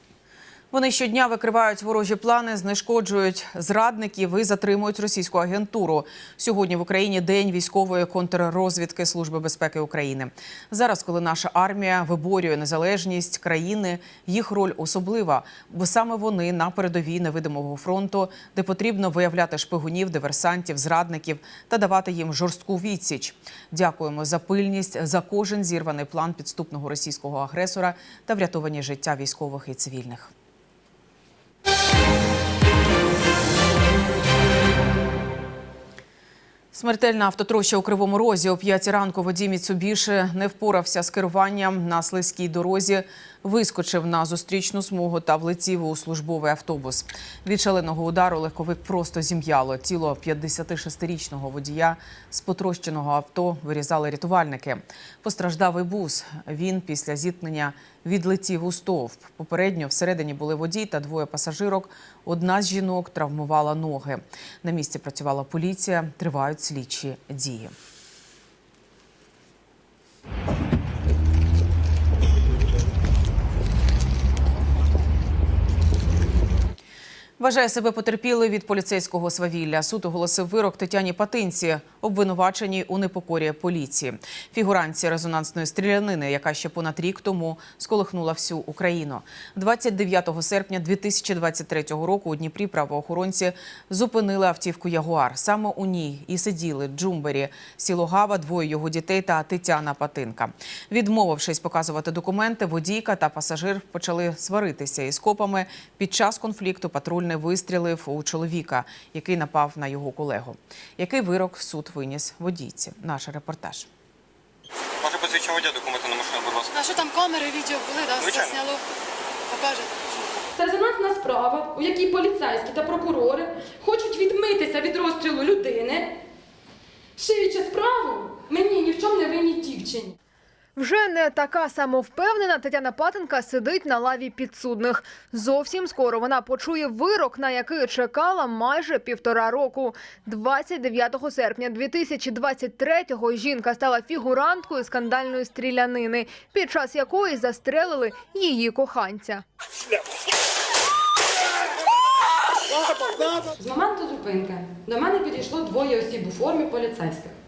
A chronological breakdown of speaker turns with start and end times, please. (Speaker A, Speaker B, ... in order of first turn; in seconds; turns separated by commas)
Speaker A: 0.7-30.3, Speaker A: 36.7-67.7, Speaker A: 77.4-113.9, Speaker B: 115.0-116.7, Speaker C: 116.7-118.8, Speaker B: 118.2-118.6, Speaker C: 119.5-120.4, Speaker D: 120.5-126.2, Speaker D: 127.2-130.2, Speaker E: 130.8-149.4, Speaker D: 153.6-157.3